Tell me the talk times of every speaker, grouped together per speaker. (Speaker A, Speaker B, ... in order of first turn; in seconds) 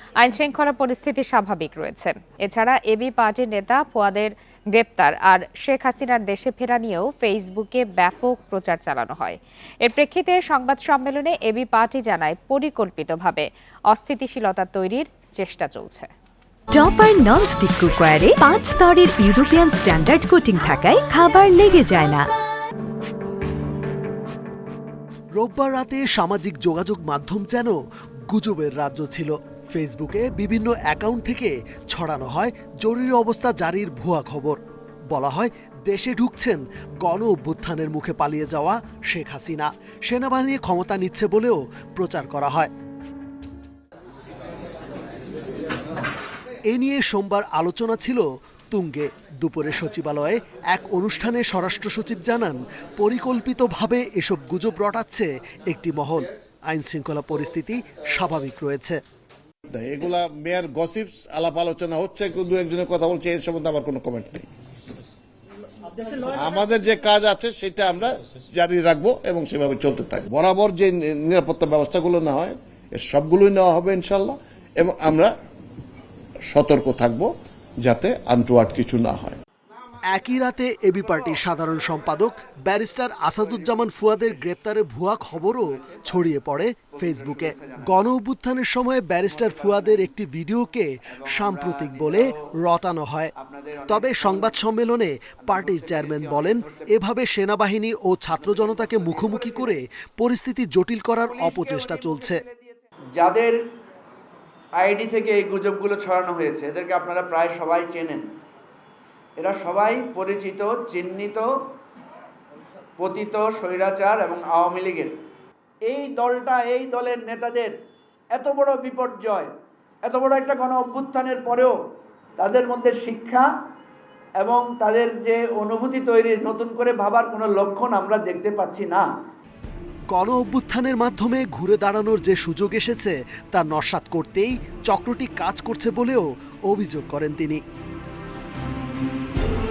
Speaker A: 0.2-16.1
Speaker B: 16.7-22.3
Speaker C: 25.4-27.8, 28.3-34.6, 35.1-42.7, 46.7-59.0, 80.1-93.3, 93.9-102.4, 130.1-137.6
Speaker D: 59.7-64.5, 66.2-75.3, 76.5-77.3, 77.8-79.4
Speaker E: 87.0-88.0, 89.3-90.1, 91.1-92.3, 93.4-94.6, 95.5-96.9, 98.3-99.8, 101.2-103.6, 104.8-108.2, 109.4-111.5, 113.0-115.1, 115.9-117.7, 118.3-119.5, 120.0-121.7, 122.4-123.5, 124.4-129.1